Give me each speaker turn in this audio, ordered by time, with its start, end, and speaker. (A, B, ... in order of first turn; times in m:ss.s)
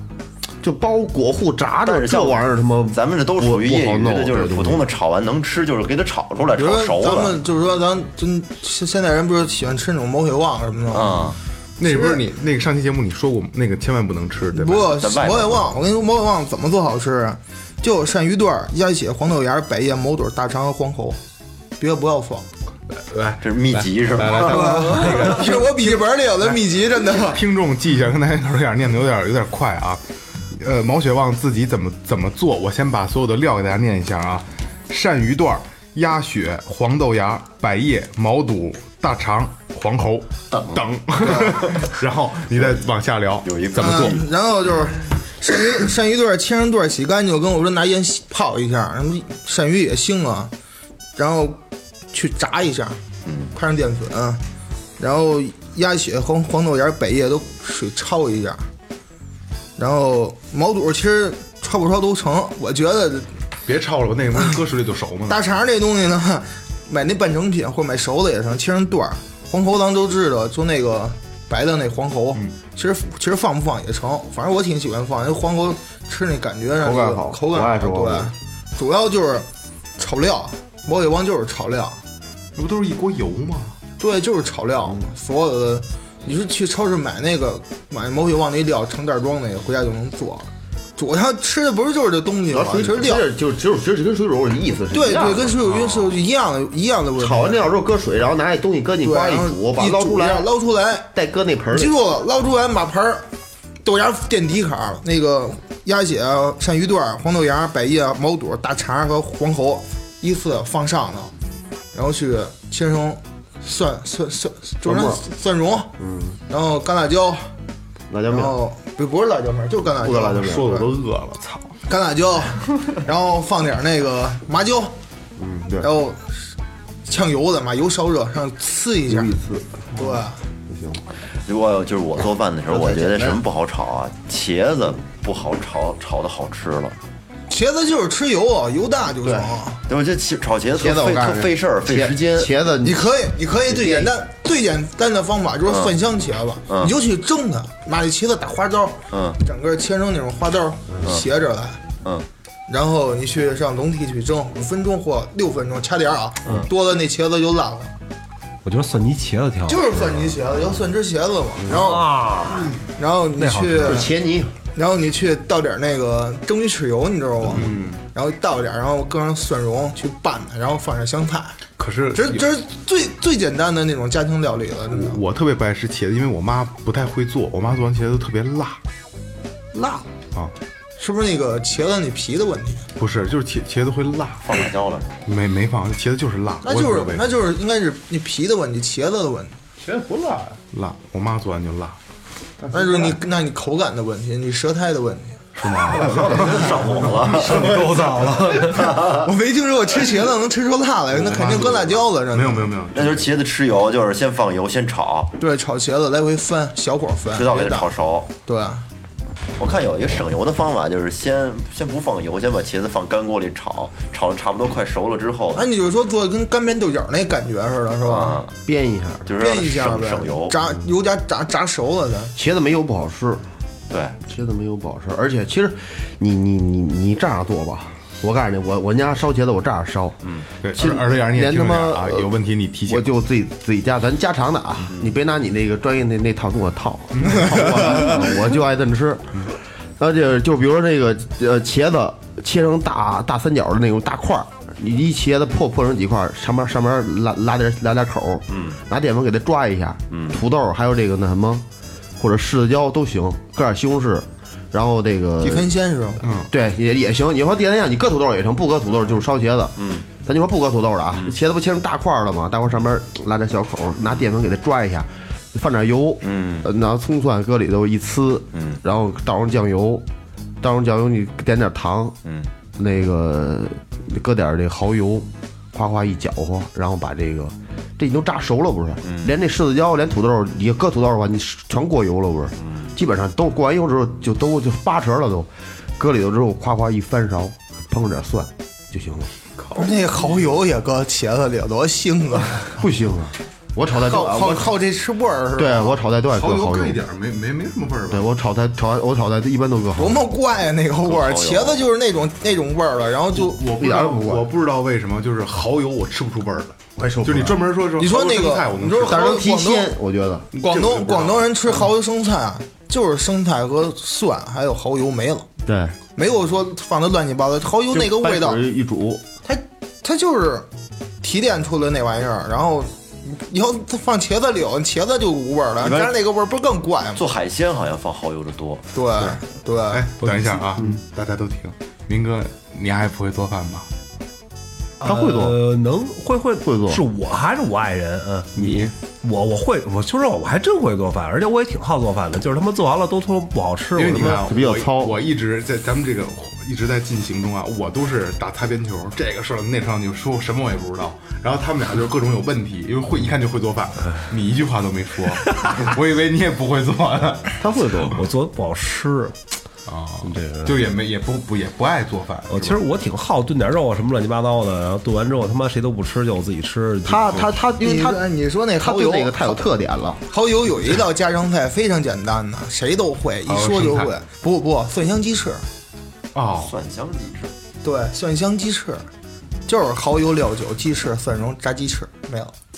0:00.6-0:04.8 A
0:01.8-0:07.4 B
0:06.6-0:11.3 C
0:10.9-0:11.4 B
0:11.8-0:15.0 D
0:11.9-0:12.2 C
0:14.5-0:21.2 C
0:15.0-0:15.8 B
0:21.8-0:22.5 C
0:22.9-0:44.2 D
0:23.4-0:25.1 B
0:24.5-0:27.4 C
0:41.3-0:41.9 B
0:43.4-0:44.3 B
0:43.8-0:50.5 C
0:51.2-0:51.6 C
0:52.1-0:53.0 C
0:53.2-0:53.5 B
0:53.5-0:54.4 C
0:55.0-0:58.7 C
0:59.8-1:03.3 C
1:03.7-1:05.4 D
1:05.3-1:19.5 C
1:16.8-1:18.3 A
1:20.0-1:22.0 C
1:22.6-1:23.8 D
1:24.0-1:33.3 C
1:32.5-1:35.6 A
1:34.9-1:37.7 C
1:37.2-1:40.5 A
1:39.0-1:41.1 C
1:41.1-1:41.9 A
1:41.7-1:43.3 C
1:43.8-1:51.3 C
1:51.9-1:55.9 C
1:54.8-1:55.2 A
1:56.0-1:56.4 A
1:56.5-1:57.5 C
1:58.1-1:58.6 A
1:58.3-2:00.9 C
2:00.0-2:00.7 A
2:00.4-2:01.8 D
2:01.9-2:05.0 C
2:05.4-2:05.9 A
2:05.8-2:06.5 C
2:07.0-2:09.4 C
2:09.1-2:10.2 A
2:09.9-2:10.4 C
2:10.7-2:11.0 A
2:11.5-2:17.0 B
2:12.7-2:13.4 A
2:17.5-2:19.8 C
2:19.2-2:19.5 A
2:19.9-2:22.5 B
2:20.8-2:23.1 A
2:22.8-2:31.8 C
2:23.7-2:24.1 A
2:25.7-2:25.9 B
2:29.1-2:29.4 B
2:32.7-2:37.9 C
2:38.6-2:40.3 E
2:39.7-2:42.1 C
2:41.7-2:42.8 E
2:43.0-2:44.1 C
2:43.4-2:44.0 E
2:43.8-2:44.5 A
2:44.7-2:51.6 C
2:47.5-2:48.0 D
2:51.8-2:52.5 D
2:52.1-2:55.2 C
2:54.9-2:58.8 D
2:59.7-3:00.1 C
3:01.0-3:02.9 C
3:03.0-3:04.7 D
3:04.5-3:05.2 B
3:05.2-3:07.3 D
3:06.6-3:09.6 C
3:09.8-3:12.0 D
3:12.7-3:15.4 C
3:15.6-3:19.1 D
3:16.0-3:17.8 B
3:18.6-3:19.2 B
3:18.9-3:22.7 C
3:21.1-3:23.3 D
3:22.9-3:25.3 B
3:25.4-3:27.9 C
3:27.3-3:28.3 B
3:28.5-3:28.9 C
3:29.6-3:35.7 B
3:35.6-3:38.4 C
3:38.0-3:38.5 B
3:38.6-3:39.3 A
3:39.3-3:40.6 B
3:39.4-3:42.4 C
3:42.4-3:43.4 A
3:43.9-3:44.2 B
3:44.2-3:50.2 A
3:50.6-3:53.1 D
3:50.7-3:52.3 A
3:52.9-4:11.7 A
3:54.9-3:55.2 B
3:57.2-3:58.1 D
4:08.5-4:08.8 B
4:10.1-4:10.4 B
4:12.2-4:15.7 A
4:15.4-4:16.2 C
4:16.2-4:16.5 D
4:16.5-4:30.1 A
4:19.8-4:20.1 B
4:26.2-4:26.7 B
4:28.5-4:28.8 B
4:30.6-4:32.2 A
4:32.2-4:32.5 B
4:32.8-4:49.3 A
4:39.0-4:39.3 B
4:42.6-4:42.9 B
4:49.6-4:50.6 D
4:49.8-4:52.8 C
4:52.8-4:54.7 A
4:54.0-4:56.0 C
4:55.6-4:57.0 A
4:56.3-4:58.2 D
4:58.1-5:00.2 A
5:00.0-5:03.6 C
5:01.0-5:01.8 B
5:03.4-5:09.3 D
5:03.8-5:04.5 A
5:07.0-5:07.8 A
5:08.0-5:09.9 C
5:09.0-5:10.5 A
5:10.5-5:11.9 D
5:10.6-5:15.5 C
5:15.7-5:16.0 A
5:16.2-5:18.6 C
5:17.9-5:19.2 A
5:19.4-5:20.7 C
5:21.2-5:27.2 C
5:25.8-5:26.1 B
5:27.2-5:28.9 B
5:28.9-5:30.1 C
5:29.9-5:33.9 D
5:35.0-5:35.6 A
5:35.0-5:44.5 E
5:36.6-5:37.0 A
5:38.6-5:38.9 D
5:44.0-5:57.6 D
5:44.1-5:45.2 A
5:57.6-5:58.2 A
5:58.1-5:59.4 E
5:59.9-6:02.8 D
6:00.2-6:00.8 E
6:02.5-6:07.5 E
6:07.0-6:08.2 A
6:07.7-6:09.6 C
6:08.8-6:10.2 A
6:10.3-6:15.7 C
6:13.5-6:14.1 D
6:16.3-6:16.8 D
6:16.6-6:17.5 B
6:17.8-6:19.1 C
6:19.7-6:22.5 C